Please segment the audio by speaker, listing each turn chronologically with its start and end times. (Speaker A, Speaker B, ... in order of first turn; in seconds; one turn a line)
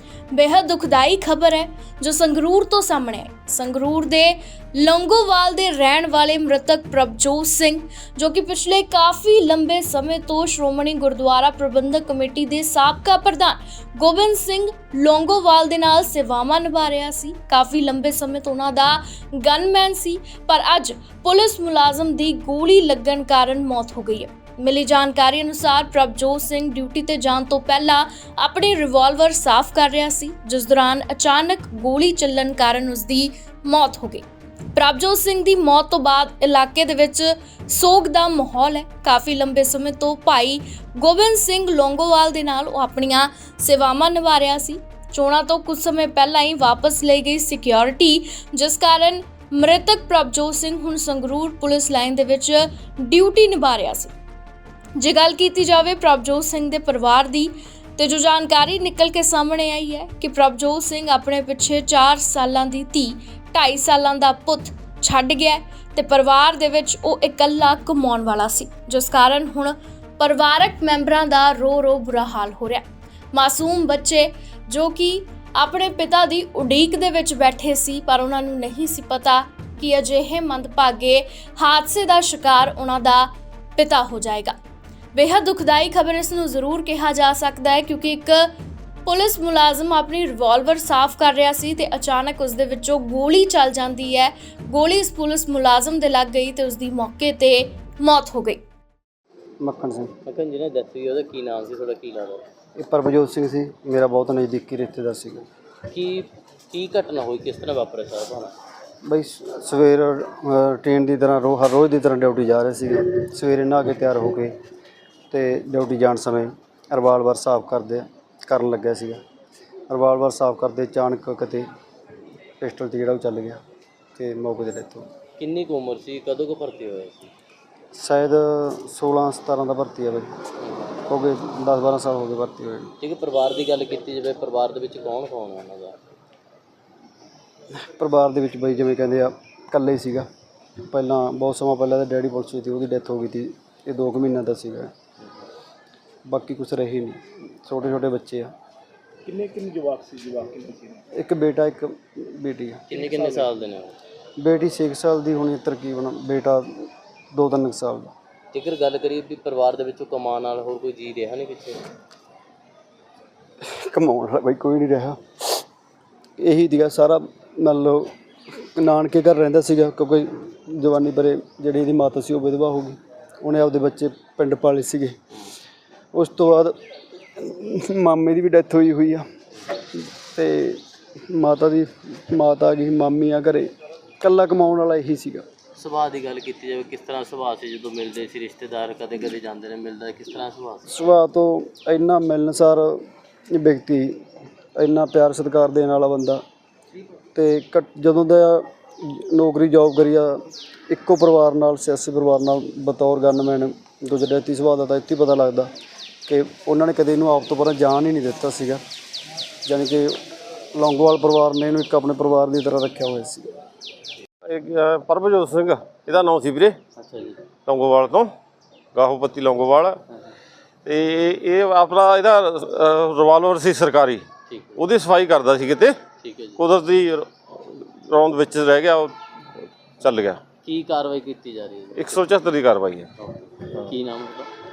Speaker A: 0.3-34.2
Speaker A: 34.7-54.1
Speaker A: 55.0-84.5
Speaker A: 85.1-88.5
Speaker A: 89.0-98.6
Speaker B: 99.6-100.1
Speaker C: 100.2-102.5
Speaker B: 102.8-105.4
Speaker C: 105.9-108.5
Speaker B: 109.0-114.5
Speaker B: 115.3-119.2
Speaker B: 119.9-121.7
Speaker B: 122.6-123.6
Speaker B: 124.2-125.0
Speaker C: 125.4-127.3
Speaker B: 128.0-130.3
Speaker B: 131.1-132.9
Speaker C: 133.0-136.0
Speaker B: 137.9-140.2
Speaker B: 140.9-144.9
Speaker B: 146.3-148.5
Speaker D: 149.2-151.0
Speaker B: 151.1-152.8
Speaker C: 152.9-153.9
Speaker D: 152.9-153.4
Speaker B: 154.4-158.1
Speaker C: 158.5-161.8
Speaker B: 163.6-165.6
Speaker B: 166.4-168.1
Speaker B: 168.8-175.2
Speaker B: 176.1-176.8
Speaker B: 177.3-179.2
Speaker B: 179.9-185.4
Speaker C: 185.8-190.9
Speaker B: 190.9-194.2
Speaker B: 194.8-196.4
Speaker B: 197.3-205.7
Speaker B: 206.3-208.8
Speaker B: 209.6-210.2
Speaker B: 210.7-213.5
Speaker E: 214.4-216.8
Speaker C: 216.9-217.4
Speaker E: 217.7-218.3
Speaker E: 218.9-220.0
Speaker E: 220.8-224.2
Speaker C: 224.5-224.9
Speaker E: 224.8-226.0
Speaker C: 226.2-226.6
Speaker E: 226.6-229.2
Speaker E: 230.0-230.4
Speaker C: 230.6-232.4
Speaker E: 231.9-233.1
Speaker C: 233.2-234.5